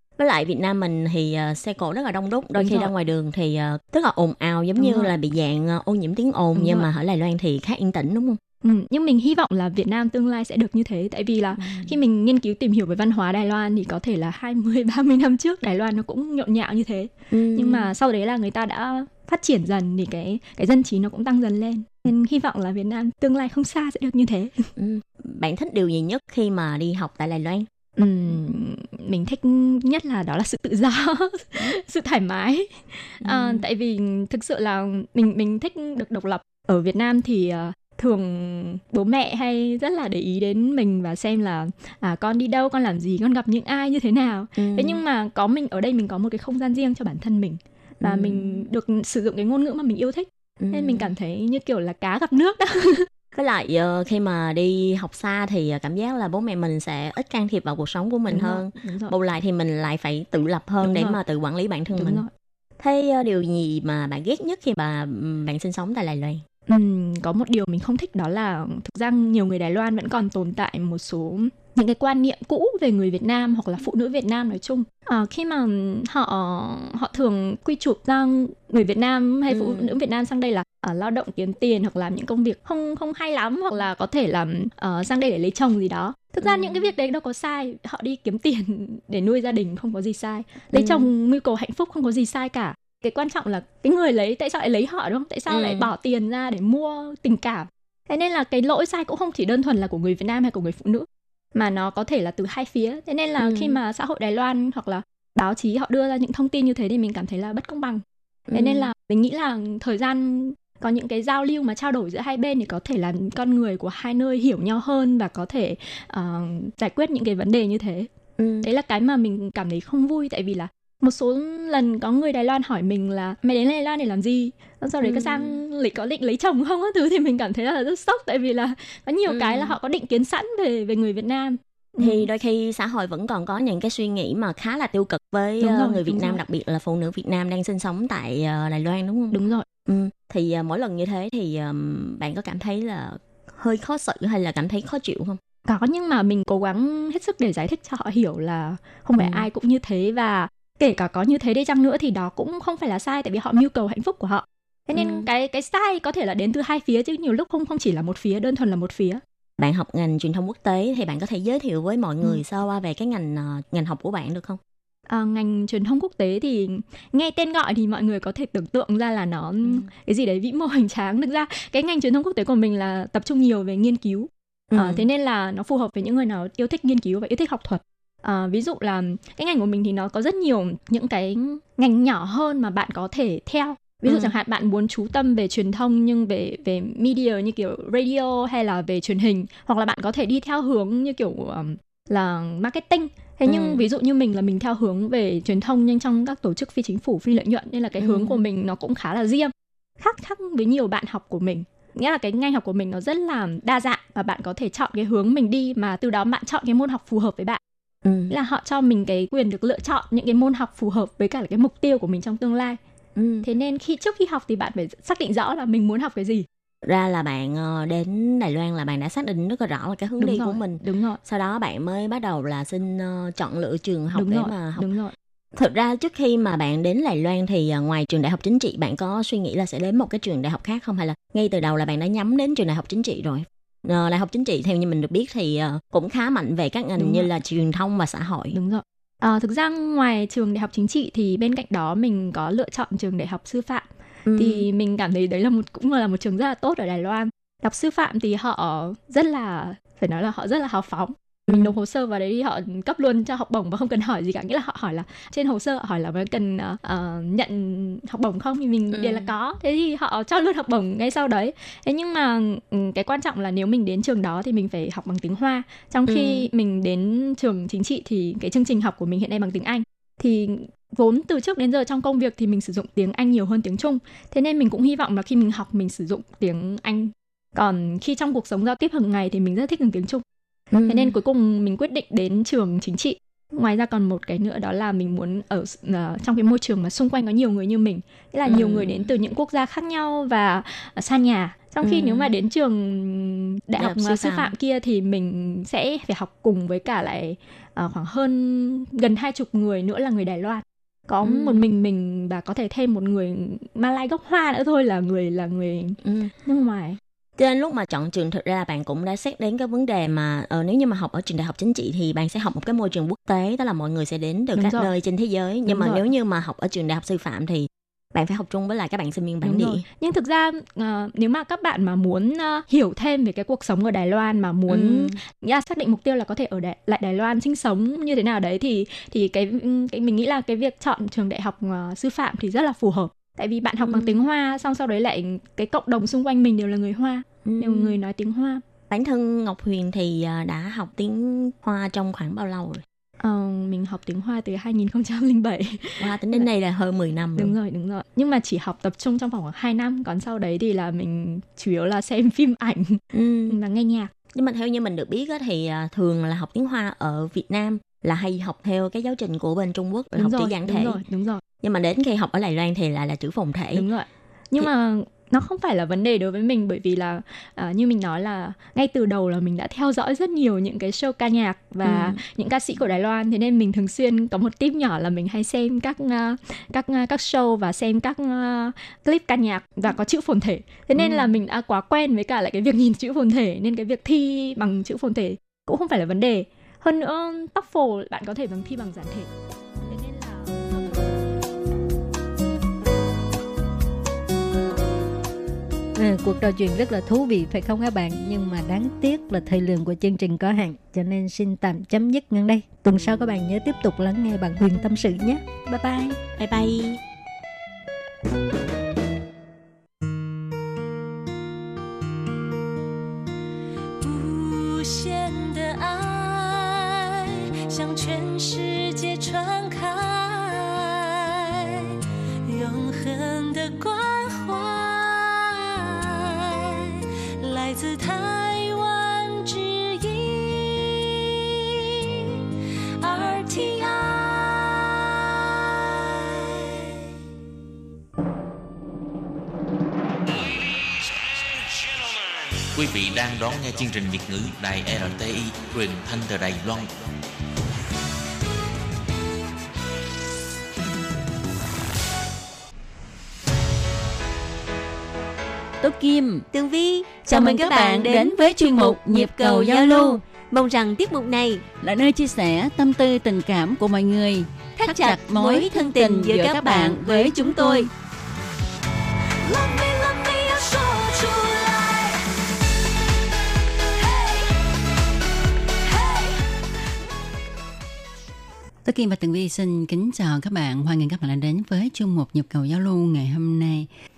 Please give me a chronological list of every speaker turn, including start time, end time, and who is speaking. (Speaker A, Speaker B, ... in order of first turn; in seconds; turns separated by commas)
Speaker A: 0.2-8.4, Speaker B: 2.5-2.9, Speaker B: 4.8-5.1, Speaker B: 6.5-6.9, Speaker B: 8.6-24.7, Speaker A: 11.6-12.0, Speaker A: 17.3-17.9, Speaker A: 24.8-27.7, Speaker B: 28.0-53.0, Speaker A: 33.2-33.6, Speaker A: 44.5-45.0, Speaker A: 48.0-48.7, Speaker A: 50.6-51.1, Speaker A: 53.3-62.2, Speaker B: 58.3-59.1, Speaker B: 60.8-61.2, Speaker B: 61.9-62.3, Speaker A: 62.8-66.4, Speaker B: 66.7-108.0, Speaker A: 79.5-80.0, Speaker A: 86.4-86.9, Speaker A: 90.7-91.1, Speaker A: 95.5-95.9, Speaker A: 103.4-103.8, Speaker A: 108.5-108.9, Speaker B: 108.5-118.1, Speaker A: 118.4-118.7, Speaker B: 118.6-132.3, Speaker A: 125.0-125.6, Speaker A: 129.3-129.8, Speaker A: 132.0-145.4, Speaker B: 135.6-136.4, Speaker B: 139.3-139.7, Speaker B: 145.6-159.2, Speaker A: 149.2-149.5, Speaker A: 154.9-155.3, Speaker A: 159.6-164.6, Speaker B: 165.1-207.6, Speaker A: 174.7-175.1, Speaker A: 184.1-184.3, Speaker A: 193.5-193.8, Speaker A: 198.0-198.4, Speaker A: 208.0-208.3, Speaker B: 208.3-212.8, Speaker A: 213.1-213.5, Speaker B: 213.4-216.4, Speaker A: 216.8-224.9, Speaker B: 220.2-221.2, Speaker B: 224.1-225.1, Speaker A: 225.6-238.6, Speaker B: 237.0-237.3, Speaker B: 238.5-280.2, Speaker A: 244.3-244.6, Speaker A: 258.9-259.3, Speaker A: 266.1-266.5, Speaker A: 280.7-281.2, Speaker B: 280.9-307.0, Speaker A: 288.4-289.1, Speaker A: 291.8-292.3, Speaker A: 293.8-294.5, Speaker A: 301.2-301.6, Speaker A: 306.0-306.3, Speaker A: 307.4-319.8, Speaker B: 314.6-314.9, Speaker B: 315.7-316.1, Speaker B: 319.4-338.6, Speaker A: 324.7-325.1, Speaker A: 333.8-334.2, Speaker A: 337.4-337.9, Speaker A: 338.9-342.8, Speaker B: 343.2-346.5, Speaker A: 346.0-347.5, Speaker B: 347.4-354.1, Speaker A: 353.1-353.6, Speaker A: 354.3-361.0, Speaker B: 360.1-361.4, Speaker A: 361.6-363.9, Speaker B: 363.7-389.3, Speaker A: 371.8-372.2, Speaker A: 380.9-381.4, Speaker B: 389.9-390.9, Speaker C: 395.9-406.2, Speaker A: 406.3-407.0, Speaker D: 414.0-432.1, Speaker D: 433.0-437.0, Speaker E: 442.7-447.0, Speaker F: 455.8-456.5, Speaker G: 456.5-461.6, Speaker F: 457.3-460.2, Speaker F: 461.8-467.9, Speaker G: 464.8-467.9, Speaker D: 469.4-472.2, Speaker D: 474.0-474.5, Speaker D: 475.9-476.4, Speaker F: 478.8-483.9